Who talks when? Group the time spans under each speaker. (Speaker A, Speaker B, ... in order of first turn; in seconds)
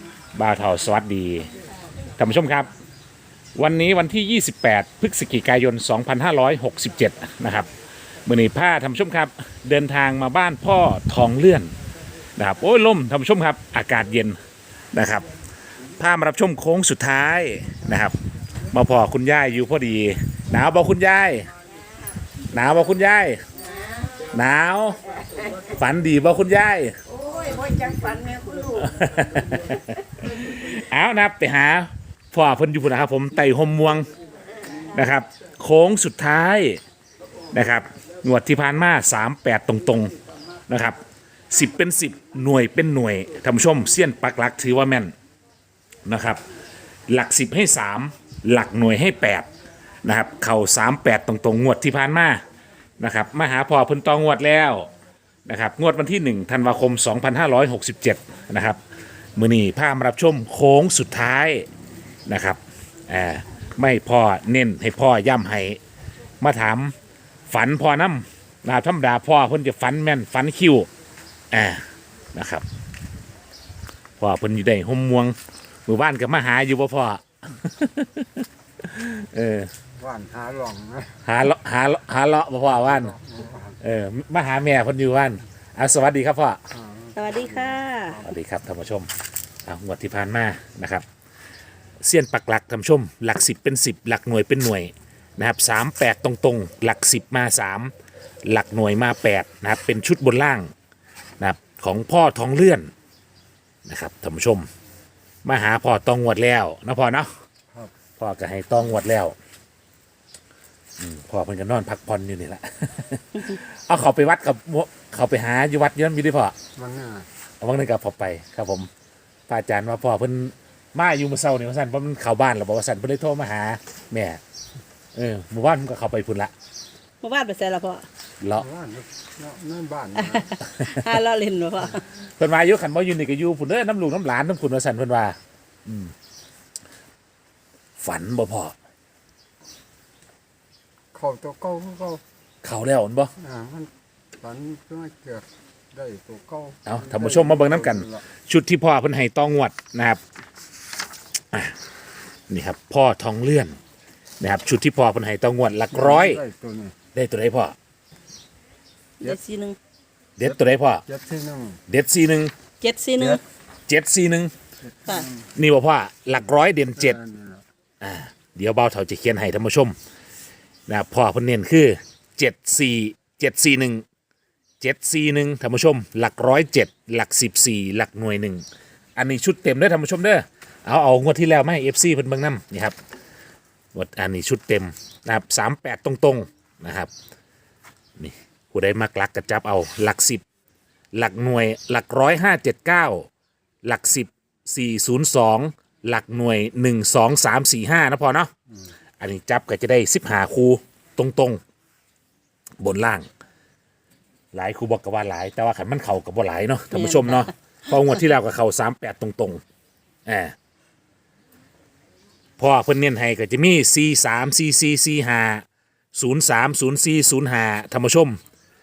Speaker A: 0.3-1.5, 2.2-2.7, 3.5-7.7, 8.2-11.7, 12.3-14.4, 14.9-15.3, 16.0-18.1, 18.7-21.5, 22.5-23.4, 24.3-25.0, 25.7-26.9, 28.7-34.0, 34.9-36.8, 37.5-40.1, 40.7-41.0, 41.5-45.1, 46.0-46.4, 47.1-49.5, 50.0-52.4, 53.0-54.9, 55.5-58.8, 59.3-61.6, 62.3-65.8, 66.4-66.9, 67.5-70.9, 71.5-72.6, 74.2-79.7, 81.2-83.1, 83.8-86.6, 88.2-89.1, 89.6-91.0, 92.0-97.9, 98.4-100.7, 101.4-102.9, 103.8-104.7, 105.4-107.3, 108.2-109.3, 111.0-116.5, 117.6-118.9, 119.5-124.4, 125.1-126.5, 128.4-128.7, 132.1-136.1, 138.0-138.7, 142.6-143.3, 146.8-150.2, 152.5-153.8, 154.4-156.4, 157.1-157.7, 160.4-161.0, 161.9-162.5, 163.9-164.5, 165.5-167.2, 168.0-169.9, 170.9-174.0, 174.8-178.6, 179.2-182.9, 183.9-187.1, 188.2-190.4, 191.1-193.3, 193.8-198.5, 199.2-201.6, 202.8-203.3, 204.5-209.6, 210.2-210.5, 212.6-218.4
Speaker B: 27.3-28.6, 87.1-88.2, 127.2-128.1, 130.2-132.0, 159.2-159.8, 162.8-163.4, 206.9-207.5
Speaker C: 80.0-81.2, 82.7-83.8, 86.7-88.3, 116.8-117.3, 128.6-130.6, 141.1-142.2, 143.4-148.2, 155.9-156.9, 160.4-161.8, 164.8-165.5, 166.9-167.7